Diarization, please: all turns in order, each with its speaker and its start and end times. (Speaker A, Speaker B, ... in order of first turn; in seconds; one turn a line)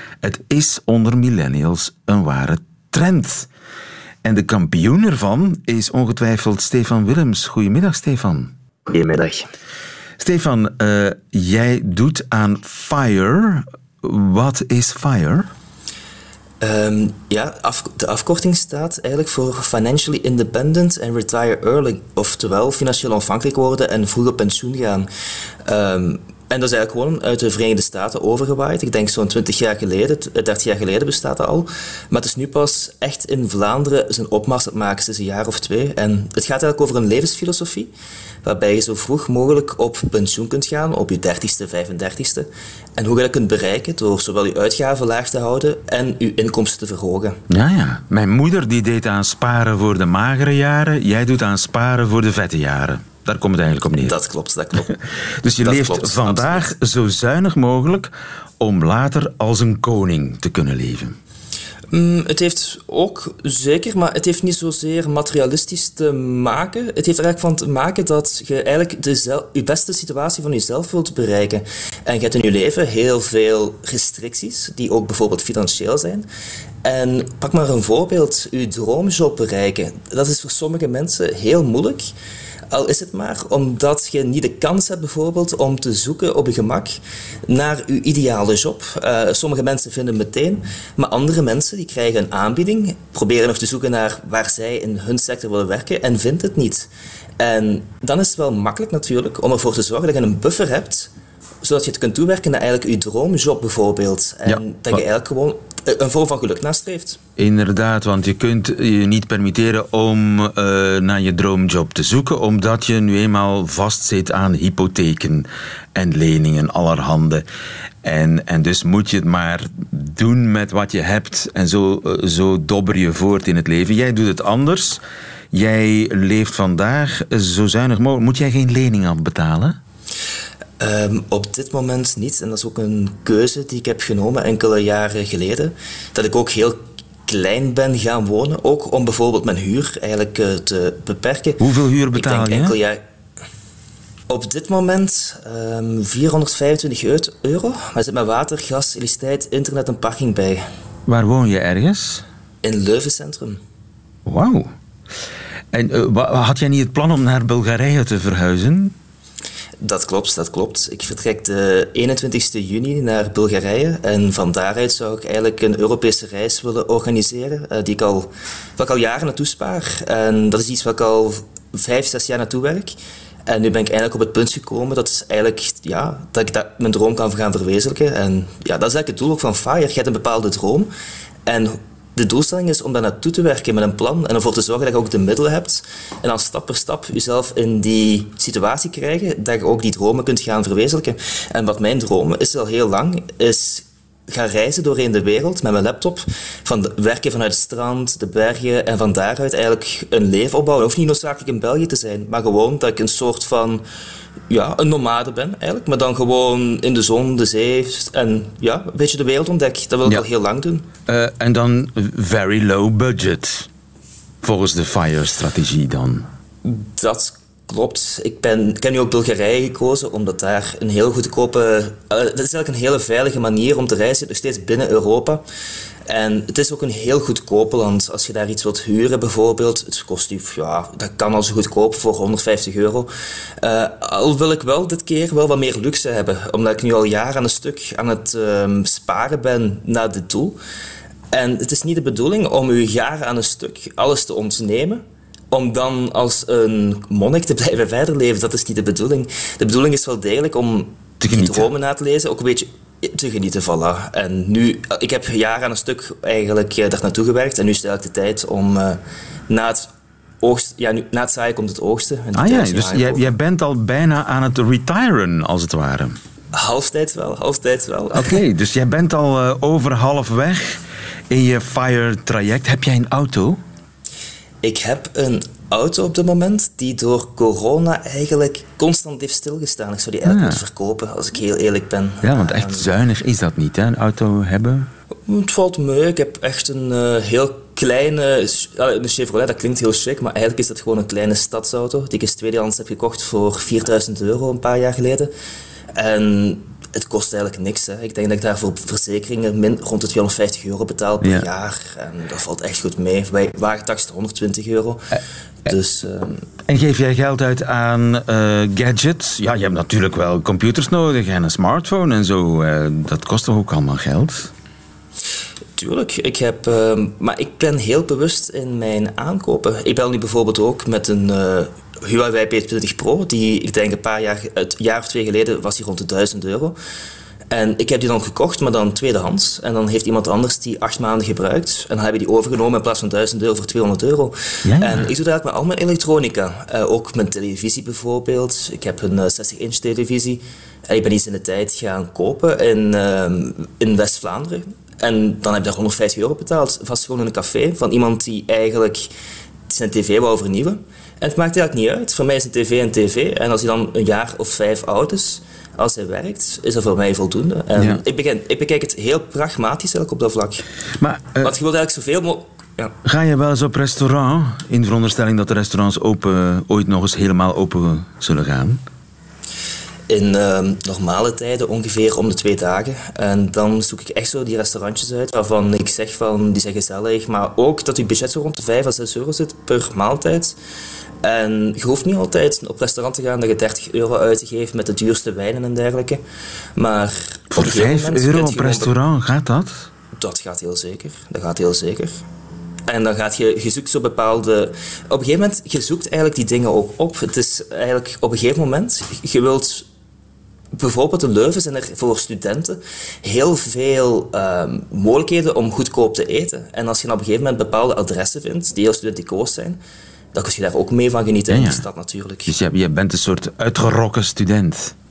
Speaker A: 0.2-3.5
Speaker A: 4.2-8.5
Speaker B: 8.9-9.5
Speaker A: 10.2-15.5
Speaker B: 16.6-25.1
Speaker B: 25.6-37.9
Speaker B: 38.4-47.4
Speaker A: 47.5-54.2
Speaker B: 54.0-55.0
Speaker A: 54.7-61.1
Speaker B: 55.6-56.7
Speaker B: 61.9-76.3
Speaker B: 76.8-82.1
Speaker B: 82.7-96.9
Speaker B: 97.4-101.1
Speaker B: 101.6-107.2
Speaker A: 104.5-105.0
Speaker A: 107.4-117.4
Speaker A: 118.0-125.0
Speaker A: 125.5-129.8
Speaker B: 130.8-141.6
Speaker A: 141.6-142.8
Speaker B: 142.1-143.0
Speaker B: 144.3-150.7
Speaker A: 151.1-152.2
Speaker B: 152.6-153.6
Speaker A: 154.2-154.7
Speaker A: 155.7-158.9
Speaker B: 159.8-172.9
Speaker B: 173.5-180.9
Speaker B: 181.4-203.8
Speaker B: 204.5-210.8
Speaker A: 211.1-213.7
Speaker A: 214.4-216.3
Speaker B: 216.6-225.4
Speaker B: 226.1-233.1
Speaker B: 233.6-240.6
Speaker B: 241.3-259.9
Speaker A: 251.2-251.7
Speaker B: 260.4-263.3
Speaker A: 262.3-266.2
Speaker B: 266.5-268.4
Speaker A: 268.1-273.6
Speaker B: 274.6-282.9
Speaker A: 280.2-280.6
Speaker A: 282.2-284.9
Speaker B: 285.2-295.3
Speaker B: 295.9-306.4
Speaker A: 301.2-301.5
Speaker A: 306.6-314.5
Speaker B: 315.8-326.8
Speaker B: 327.5-349.1
Speaker A: 334.6-335.1
Speaker B: 349.7-360.6
Speaker A: 357.8-358.0
Speaker A: 361.0-361.6
Speaker B: 361.4-362.9
Speaker A: 363.0-368.8
Speaker B: 370.1-380.6
Speaker B: 381.2-386.2
Speaker B: 386.8-388.9
Speaker A: 387.5-389.9
Speaker B: 390.2-392.2
Speaker B: 392.9-399.9
Speaker B: 400.7-409.8
Speaker B: 410.3-412.5
Speaker A: 411.5-411.9
Speaker A: 412.4-414.9